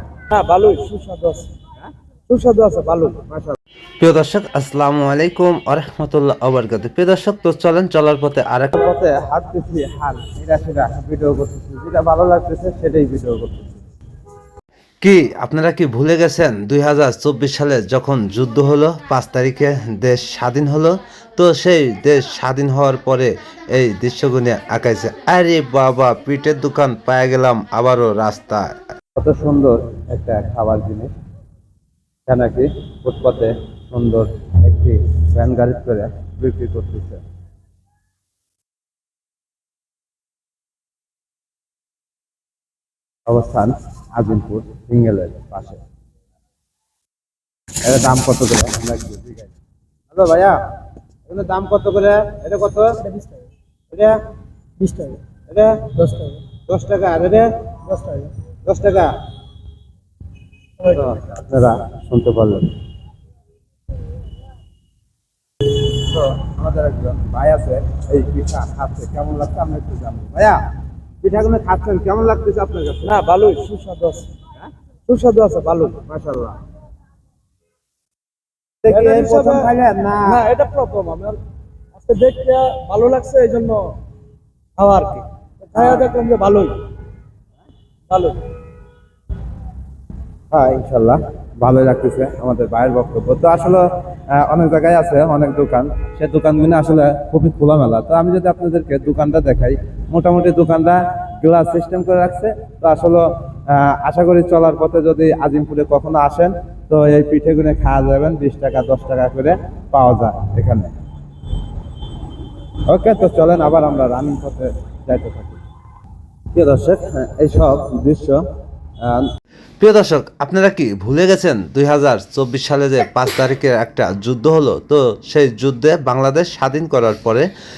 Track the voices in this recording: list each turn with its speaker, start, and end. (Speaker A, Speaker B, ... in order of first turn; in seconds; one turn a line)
Speaker A: 0.3-1.5
Speaker A: 2.3-3.2
Speaker B: 3.2-3.5
Speaker C: 4.0-8.7
Speaker B: 8.7-13.8
Speaker C: 15.0-28.8
Speaker B: 29.2-31.1
Speaker B: 32.3-37.2
Speaker B: 43.3-45.8
Speaker B: 47.8-49.5
Speaker B: 50.1-50.5
Speaker B: 51.3-53.0
Speaker B: 53.9-54.2
Speaker A: 54.8-55.2
Speaker B: 55.5-55.9
Speaker A: 56.0-56.4
Speaker B: 56.6-57.5
Speaker A: 57.9-58.3
Speaker B: 58.6-59.1
Speaker B: 60.8-62.7
Speaker B: 65.9-70.6
Speaker B: 71.2-73.2
Speaker A: 73.1-74.3
Speaker A: 75.1-76.0
Speaker B: 75.9-76.6
Speaker B: 78.8-80.4
Speaker A: 78.9-79.7
Speaker A: 80.2-81.4
Speaker A: 81.9-84.0
Speaker A: 84.8-86.9
Speaker B: 85.8-86.0
Speaker A: 88.1-88.4
Speaker B: 90.5-110.9
Speaker B: 112.9-115.6
Speaker B: 116.5-118.4
Speaker B: 119.0-119.3
Speaker C: 119.8-127.5